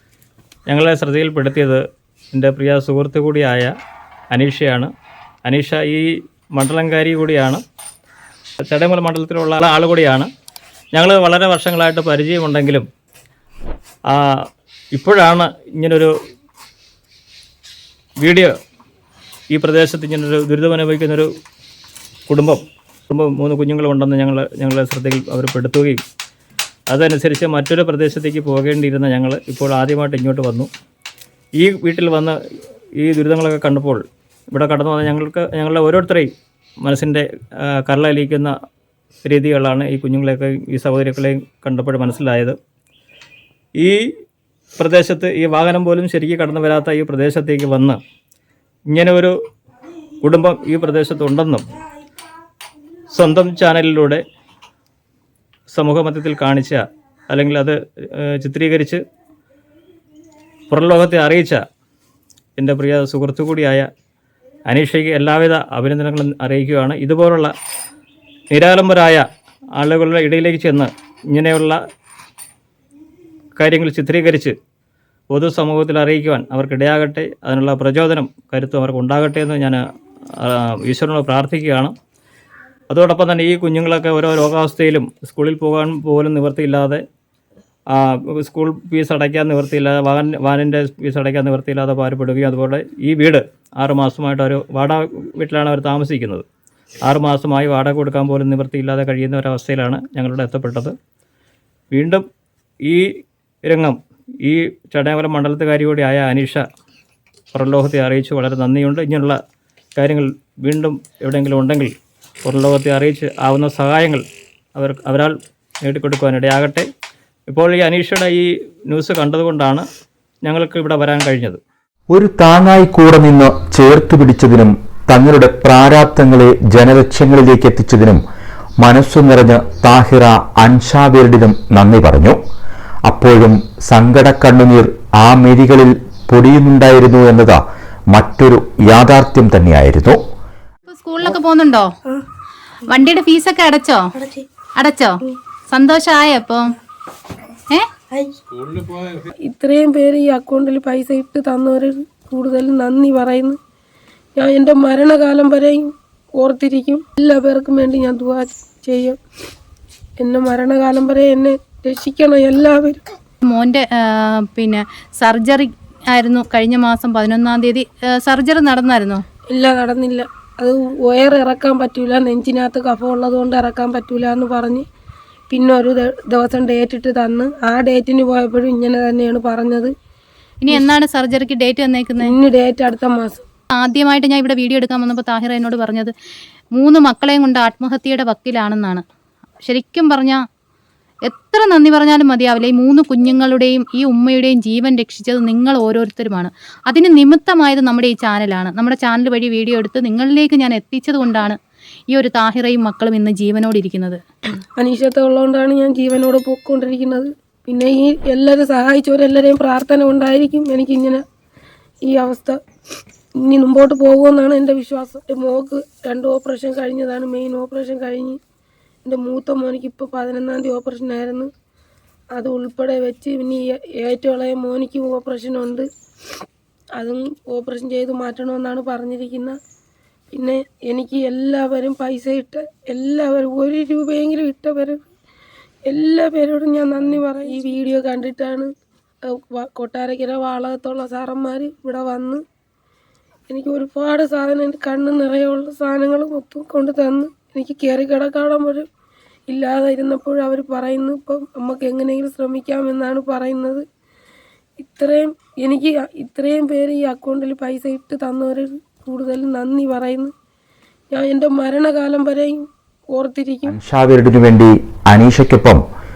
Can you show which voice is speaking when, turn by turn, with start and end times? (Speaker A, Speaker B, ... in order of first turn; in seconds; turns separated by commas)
Speaker A: 0.7-3.7, Speaker A: 4.3-4.9, Speaker A: 5.4-7.6, Speaker A: 8.6-10.3, Speaker A: 10.9-12.9, Speaker A: 14.9-16.1, Speaker A: 18.2-18.5, Speaker A: 19.5-21.3, Speaker A: 22.3-26.0, Speaker A: 26.9-30.7, Speaker A: 31.6-32.4, Speaker A: 33.0-36.3, Speaker A: 36.8-38.5, Speaker A: 39.2-42.6, Speaker A: 44.8-48.0, Speaker A: 48.9-49.3, Speaker A: 50.2-51.6, Speaker A: 53.1-54.2, Speaker A: 55.7-59.0, Speaker A: 60.7-61.6, Speaker A: 62.6-63.9, Speaker A: 64.7-67.5, Speaker A: 68.5-69.2, Speaker A: 69.8-71.8, Speaker A: 73.6-74.5, Speaker A: 75.3-79.8, Speaker A: 80.4-81.9, Speaker A: 82.9-87.0, Speaker A: 87.9-96.4, Speaker A: 97.0-100.9, Speaker A: 101.9-102.2, Speaker A: 103.6-106.6, Speaker A: 107.5-109.4, Speaker A: 110.0-111.9, Speaker A: 112.4-114.2, Speaker A: 114.7-116.8, Speaker A: 117.5-119.8, Speaker A: 120.4-121.6, Speaker B: 122.1-128.2, Speaker B: 128.8-132.4, Speaker B: 133.1-137.6, Speaker B: 138.1-140.2, Speaker C: 140.9-141.9, Speaker C: 142.9-144.1, Speaker C: 144.7-146.7, Speaker D: 149.4-153.6, Speaker D: 154.3-159.2, Speaker D: 160.2-163.1, Speaker C: 163.4-169.2, Speaker D: 169.5-174.8, Speaker D: 175.5-179.9, Speaker C: 180.6-182.3, Speaker D: 182.2-183.4, Speaker C: 183.7-186.1, Speaker C: 186.7-189.0, Speaker C: 189.6-190.4, Speaker C: 191.3-201.6, Speaker C: 202.1-204.2, Speaker D: 204.7-211.2, Speaker D: 212.0-212.6, Speaker D: 213.3-218.4, Speaker D: 219.0-221.5, Speaker D: 222.3-225.9, Speaker D: 226.9-229.6, Speaker D: 230.3-235.0, Speaker D: 235.8-242.4, Speaker D: 243.5-248.9, Speaker D: 249.5-253.8, Speaker D: 254.8-260.3, Speaker D: 261.1-263.8, Speaker B: 263.7-265.8